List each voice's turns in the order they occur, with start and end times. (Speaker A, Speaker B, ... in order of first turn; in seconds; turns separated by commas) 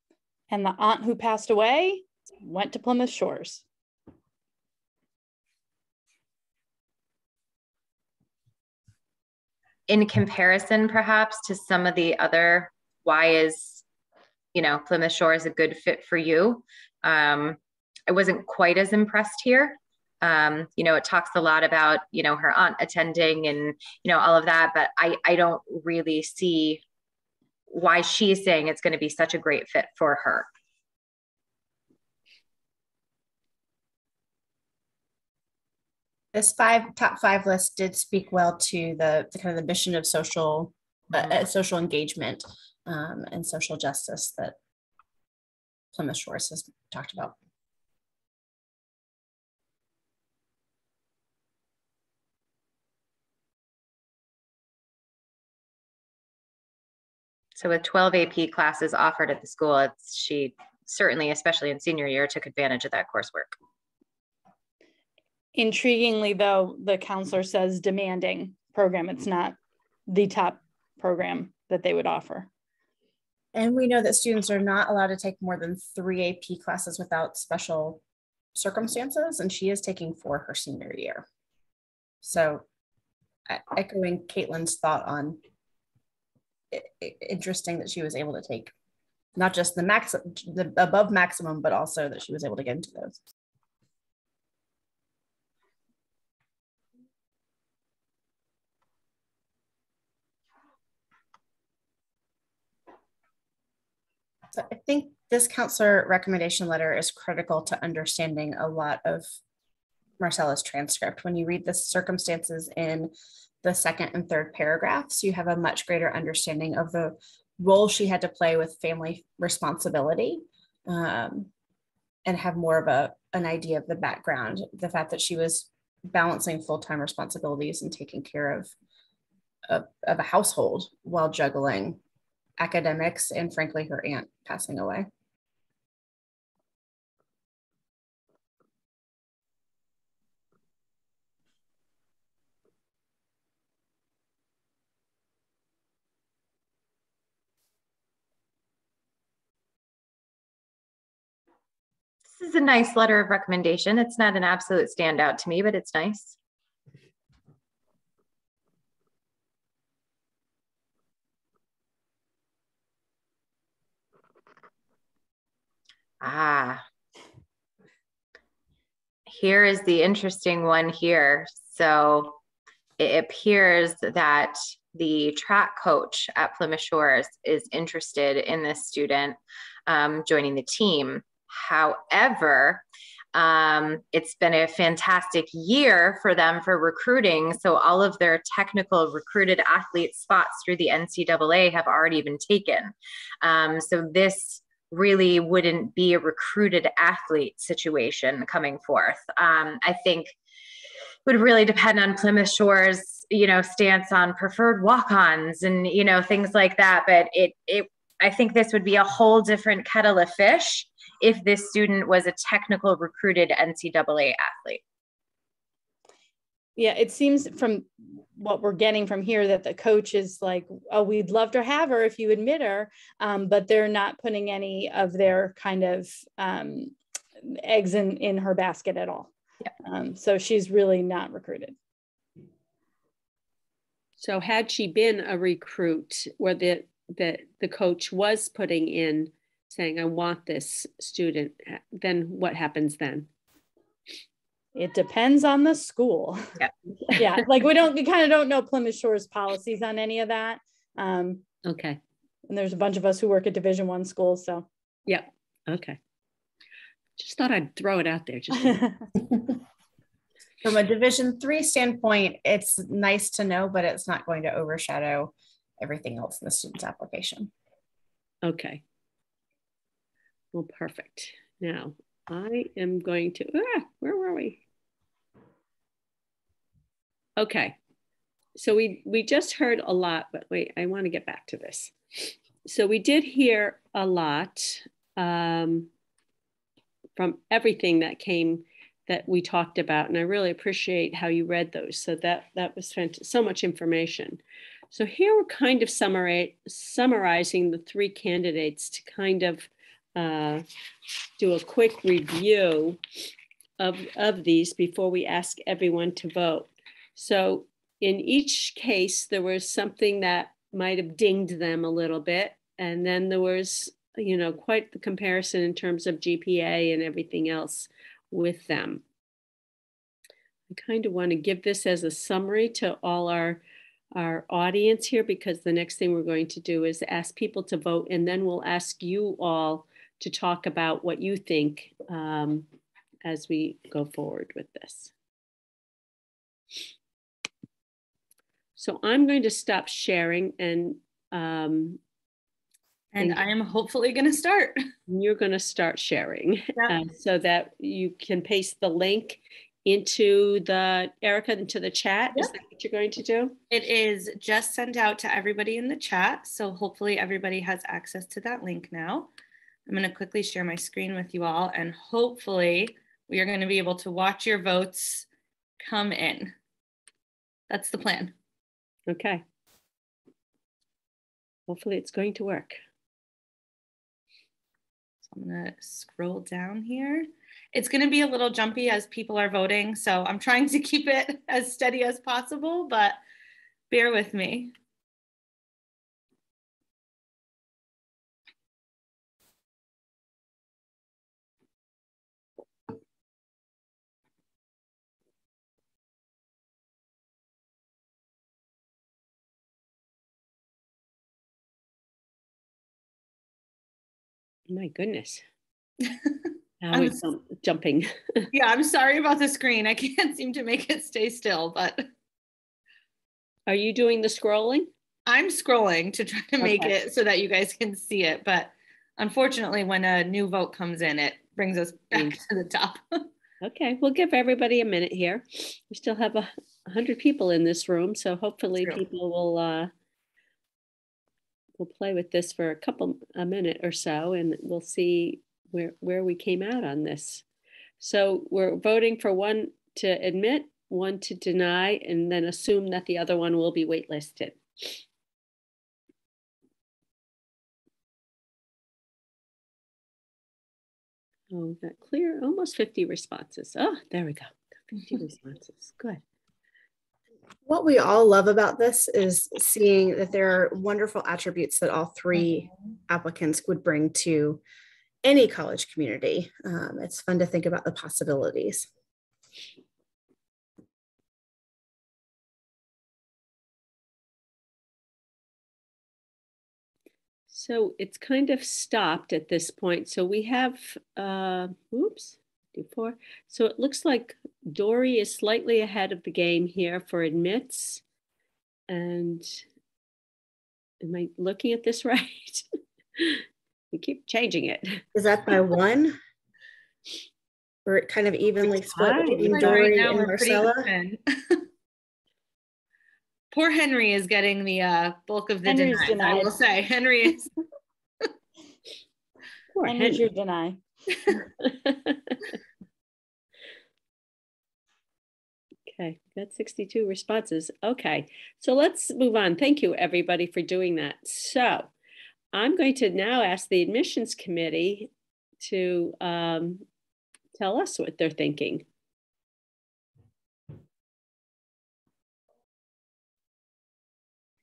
Speaker A: 0.5-3.6, Speaker B: 9.9-13.8, Speaker B: 14.5-26.8, Speaker B: 27.7-30.5, Speaker C: 36.3-44.5, Speaker C: 45.9-47.4, Speaker B: 57.6-63.5, Speaker A: 65.5-69.5, Speaker A: 70.1-72.5, Speaker C: 73.5-78.0, Speaker C: 78.5-81.2, Speaker C: 82.2-82.6, Speaker C: 83.5-85.4, Speaker C: 86.7-88.7, Speaker C: 89.3-93.2, Speaker C: 104.5-109.3, Speaker C: 110.2-121.5, Speaker C: 122.2-128.7, Speaker C: 129.7-132.0, Speaker C: 132.6-135.1, Speaker B: 152.3-156.3, Speaker B: 166.2-166.8, Speaker B: 169.3-172.4, Speaker B: 173.0-200.3, Speaker B: 201.2-214.8, Speaker A: 216.8-229.3, Speaker A: 229.8-231.7, Speaker D: 234.2-243.3, Speaker A: 244.7-246.5, Speaker A: 247.2-251.4, Speaker D: 251.6-252.0, Speaker A: 252.5-254.7, Speaker D: 255.1-256.0, Speaker D: 257.2-258.9, Speaker A: 258.7-259.0, Speaker C: 260.6-267.5, Speaker D: 268.4-268.8, Speaker D: 270.5-274.6, Speaker D: 277.4-277.8, Speaker D: 278.5-285.9, Speaker D: 287.1-300.6, Speaker D: 301.4-303.0, Speaker D: 303.8-319.0, Speaker D: 320.7-323.6, Speaker D: 324.1-332.7, Speaker D: 333.2-335.1, Speaker D: 338.8-342.0, Speaker E: 343.1-344.8, Speaker D: 345.1-353.6, Speaker E: 353.7-359.3, Speaker E: 359.9-365.3, Speaker E: 365.8-366.5, Speaker E: 367.7-368.3, Speaker D: 369.1-369.4, Speaker D: 371.7-372.8, Speaker E: 375.2-383.2, Speaker E: 383.9-384.7, Speaker D: 404.7-405.4, Speaker D: 406.8-408.5, Speaker E: 406.9-407.2, Speaker E: 408.5-412.1, Speaker D: 413.7-414.9, Speaker E: 415.2-423.2, Speaker D: 416.6-416.9, Speaker D: 423.6-429.9, Speaker D: 431.8-437.4, Speaker D: 438.0-445.0, Speaker D: 451.5-456.2, Speaker C: 457.6-464.6, Speaker C: 465.2-468.9, Speaker D: 477.5-488.0, Speaker D: 488.9-489.6, Speaker D: 491.0-492.6, Speaker D: 493.2-495.0, Speaker C: 495.1-496.2, Speaker C: 497.9-500.9, Speaker D: 498.9-500.1, Speaker E: 499.4-501.6, Speaker E: 503.5-507.5, Speaker A: 505.6-506.5, Speaker D: 509.7-510.2, Speaker A: 509.9-510.8, Speaker D: 511.4-512.4, Speaker D: 515.9-521.9, Speaker D: 522.5-525.1, Speaker D: 525.6-526.8, Speaker D: 527.5-528.8